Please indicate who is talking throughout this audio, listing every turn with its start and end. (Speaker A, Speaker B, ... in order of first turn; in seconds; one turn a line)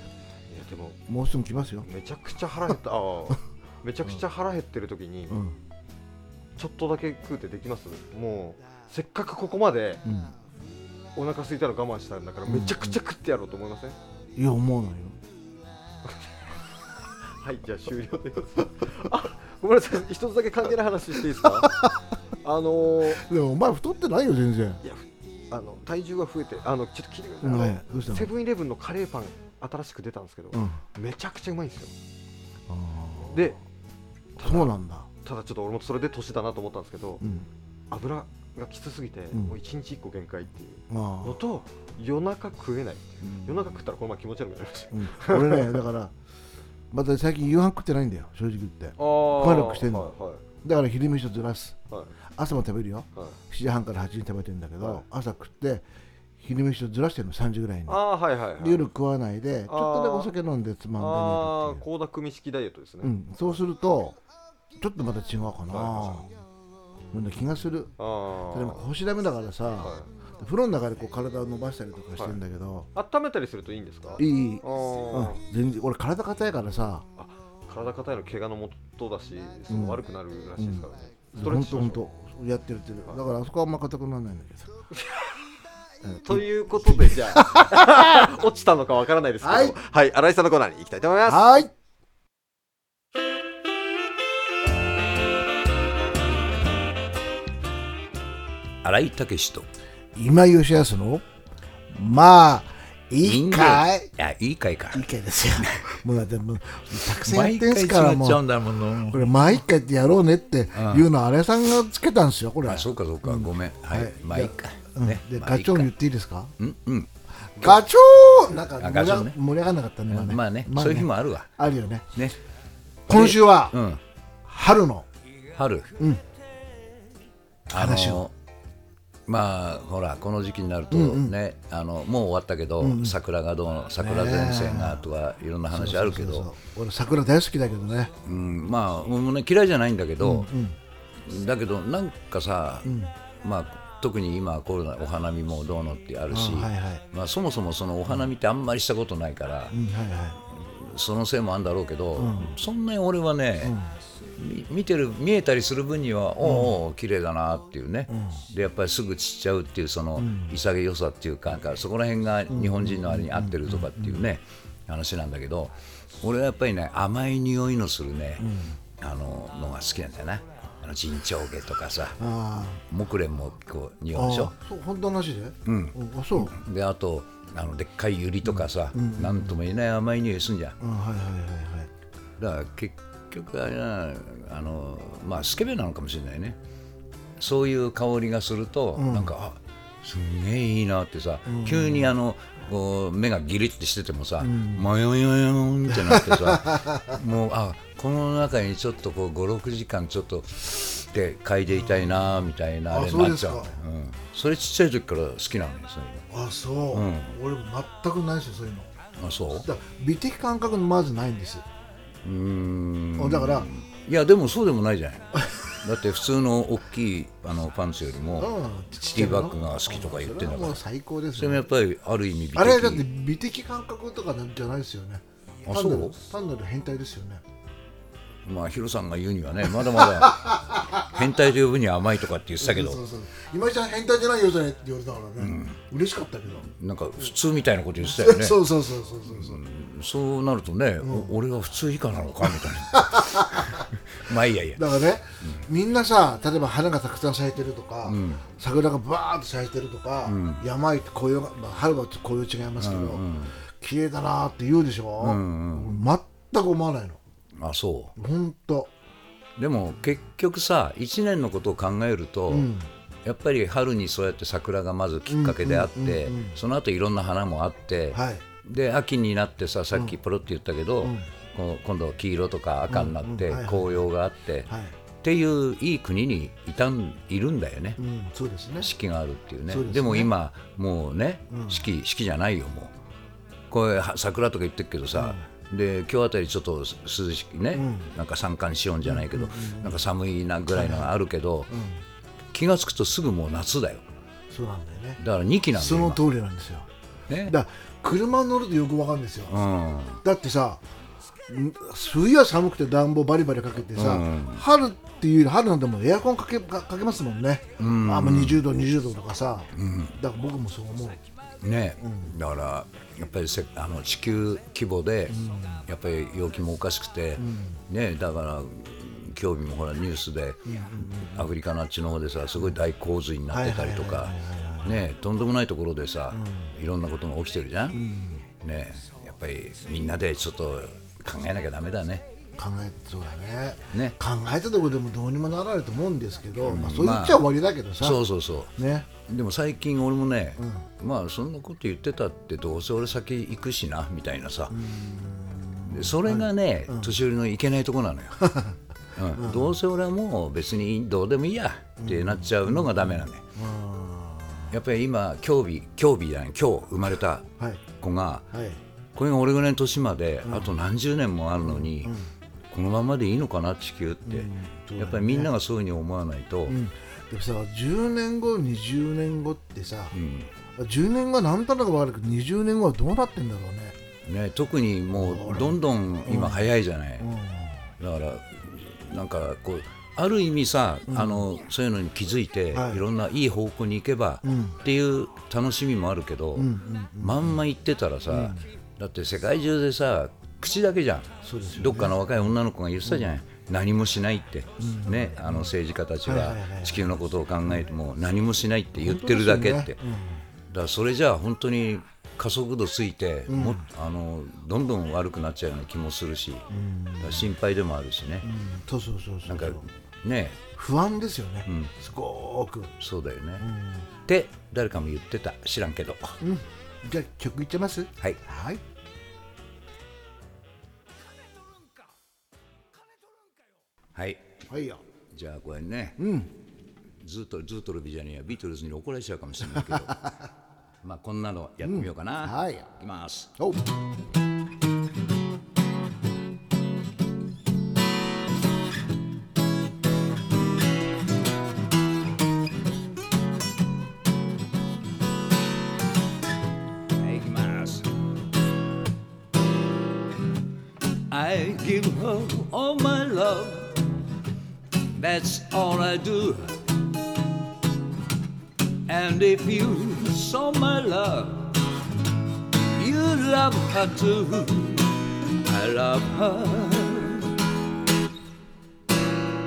Speaker A: 0.5-1.0
Speaker B: 1.1-1.9
Speaker A: 1.8-5.4
Speaker B: 5.3-5.6
Speaker A: 6.6-10.0
Speaker B: 10.1-10.3
Speaker A: 11.2-14.0
Speaker B: 12.5-13.0
Speaker B: 14.3-15.2
Speaker A: 17.4-21.7
Speaker B: 21.6-22.1
Speaker A: 22.4-23.2
Speaker B: 23.1-24.8
Speaker A: 24.8-31.9
Speaker B: 27.4-28.3
Speaker B: 30.5-30.8
Speaker B: 32.7-33.4
Speaker A: 33.3-33.6
Speaker A: 34.4-37.2
Speaker B: 34.4-35.1
Speaker B: 37.2-37.5
Speaker A: 37.9-45.8
Speaker B: 40.9-41.4
Speaker B: 43.2-43.6
Speaker B: 44.9-46.1
Speaker B: 46.9-51.8
Speaker A: 49.0-50.4
Speaker B: 52.3-55.9
Speaker B: 56.4-58.0
Speaker A: 57.9-58.9
Speaker B: 58.6-61.8
Speaker A: 59.7-60.3
Speaker A: 61.0-63.6
Speaker B: 63.0-64.2
Speaker B: 64.8-66.3
Speaker A: 65.7-66.2
Speaker B: 67.1-67.9
Speaker A: 68.0-68.8
Speaker B: 68.5-72.9
Speaker A: 69.8-70.1
Speaker A: 73.0-75.4
Speaker B: 74.2-77.1
Speaker A: 77.2-82.1
Speaker B: 79.7-80.0
Speaker B: 80.6-84.8
Speaker A: 84.9-85.4
Speaker B: 86.0-88.3
Speaker A: 86.2-91.6
Speaker B: 89.4-89.8
Speaker B: 91.3-91.7
Speaker C: 98.8-99.7
Speaker B: 100.2-101.2
Speaker B: 101.9-104.1
Speaker C: 103.2-105.1
Speaker B: 104.9-108.5
Speaker C: 105.6-106.0
Speaker C: 107.1-109.6
Speaker B: 109.1-116.5
Speaker C: 110.8-111.1
Speaker C: 112.7-115.9
Speaker C: 116.6-117.1
Speaker B: 117.6-122.2
Speaker C: 118.8-119.4
Speaker C: 120.1-121.5
Speaker B: 123.1-123.8
Speaker C: 123.1-124.0
Speaker B: 124.5-125.1
Speaker C: 125.5-126.0
Speaker B: 126.0-126.2
Speaker B: 127.7-128.3
Speaker C: 127.7-128.3
Speaker C: 129.3-136.5
Speaker B: 130.9-131.3
Speaker B: 132.8-133.2
Speaker B: 134.0-135.1
Speaker B: 135.7-138.1
Speaker C: 138.2-140.5
Speaker B: 140.2-140.8
Speaker C: 141.2-149.8
Speaker B: 142.8-143.1
Speaker B: 146.3-147.0
Speaker B: 149.7-150.4
Speaker C: 150.5-153.8
Speaker B: 152.2-152.6
Speaker B: 153.6-153.9
Speaker C: 154.4-172.2
Speaker B: 156.4-156.8
Speaker B: 158.1-158.5
Speaker B: 160.2-160.6
Speaker B: 162.5-164.2
Speaker B: 168.4-168.8
Speaker B: 172.2-172.8
Speaker C: 172.9-174.5
Speaker B: 174.1-176.6
Speaker C: 175.7-180.8
Speaker B: 178.6-179.5
Speaker B: 180.8-181.9
Speaker C: 182.4-186.6
Speaker C: 187.4-206.3
Speaker B: 189.0-189.4
Speaker B: 191.5-192.1
Speaker B: 194.4-194.9
Speaker B: 195.9-197.2
Speaker B: 201.7-202.3
Speaker B: 202.9-203.8
Speaker B: 206.3-208.9
Speaker C: 206.9-207.4
Speaker C: 209.2-209.7
Speaker B: 209.6-211.7
Speaker C: 212.2-218.5
Speaker B: 213.2-213.7
Speaker B: 218.4-221.7
Speaker C: 219.1-220.8
Speaker C: 221.3-223.1
Speaker B: 222.6-227.4
Speaker C: 225.7-226.2
Speaker C: 228.4-233.0
Speaker B: 229.8-231.2
Speaker B: 232.6-236.7
Speaker C: 235.4-235.8
Speaker C: 236.8-238.6
Speaker B: 238.0-239.6
Speaker C: 239.3-245.7
Speaker B: 241.0-241.3
Speaker B: 242.9-243.9
Speaker B: 244.8-257.2
Speaker C: 248.1-248.4
Speaker C: 250.2-250.6
Speaker C: 252.8-253.6
Speaker C: 255.2-256.0
Speaker C: 257.6-258.1
Speaker B: 258.2-258.9
Speaker C: 259.6-262.7
Speaker B: 262.5-262.9
Speaker C: 263.2-274.7
Speaker B: 265.3-266.6
Speaker B: 268.1-268.4
Speaker B: 272.9-274.0
Speaker B: 274.7-274.9
Speaker C: 275.2-278.0
Speaker B: 278.0-278.9
Speaker C: 278.8-282.9
Speaker B: 279.7-280.3
Speaker B: 281.5-281.9
Speaker C: 283.7-291.7
Speaker B: 285.1-285.4
Speaker B: 287.8-288.1
Speaker B: 289.1-290.0
Speaker B: 290.7-291.1
Speaker B: 291.7-292.0
Speaker C: 292.5-294.0
Speaker B: 294.5-295.2
Speaker C: 295.2-296.2
Speaker B: 295.7-296.9
Speaker C: 297.3-297.6
Speaker B: 297.5-299.6
Speaker C: 299.5-300.2
Speaker B: 300.2-300.8
Speaker B: 301.5-311.2
Speaker C: 303.9-304.6
Speaker C: 307.8-308.7
Speaker C: 309.7-310.2
Speaker C: 311.6-328.1
Speaker B: 312.0-312.4
Speaker B: 315.3-315.9
Speaker B: 317.4-317.8
Speaker B: 320.7-321.5
Speaker B: 323.5-325.1
Speaker B: 326.3-326.7
Speaker B: 327.9-328.5
Speaker C: 328.6-332.2
Speaker B: 332.6-338.2
Speaker C: 336.6-337.5
Speaker C: 338.0-338.7
Speaker B: 338.8-339.1
Speaker C: 339.2-344.9
Speaker B: 340.6-340.9
Speaker B: 344.7-347.2
Speaker C: 345.9-348.6
Speaker B: 348.4-348.8
Speaker C: 349.2-353.4
Speaker B: 349.4-349.8
Speaker B: 352.0-354.8
Speaker C: 354.7-358.5
Speaker B: 358.5-358.8
Speaker C: 359.1-362.1
Speaker B: 360.4-360.7
Speaker B: 361.6-362.3
Speaker C: 362.7-366.8
Speaker B: 364.3-365.5
Speaker B: 366.7-370.2
Speaker C: 370.1-370.5
Speaker B: 370.8-374.0
Speaker C: 374.2-377.3
Speaker B: 375.2-377.9
Speaker C: 378.0-400.0
Speaker B: 381.1-381.5
Speaker B: 382.7-383.0
Speaker B: 384.4-384.8
Speaker B: 386.6-387.6
Speaker B: 388.3-388.6
Speaker B: 391.4-392.2
Speaker B: 394.8-397.1
Speaker B: 399.0-400.5
Speaker C: 400.7-408.5
Speaker B: 403.5-403.9
Speaker B: 406.7-407.5
Speaker B: 408.4-409.9
Speaker C: 409.5-410.6
Speaker B: 410.8-412.9
Speaker C: 411.7-411.9
Speaker C: 413.0-413.7
Speaker B: 413.6-414.1
Speaker C: 414.3-416.4
Speaker B: 416.4-418.8
Speaker C: 424.1-424.5
Speaker B: 424.7-425.0
Speaker C: 425.3-426.2
Speaker B: 426.2-426.5
Speaker C: 427.2-430.3
Speaker C: 431.0-433.5
Speaker B: 431.8-432.9
Speaker B: 433.6-433.8
Speaker C: 447.1-448.1
Speaker C: 451.3-454.1
Speaker C: 455.1-456.7
Speaker C: 459.1-461.8
Speaker C: 463.0-467.6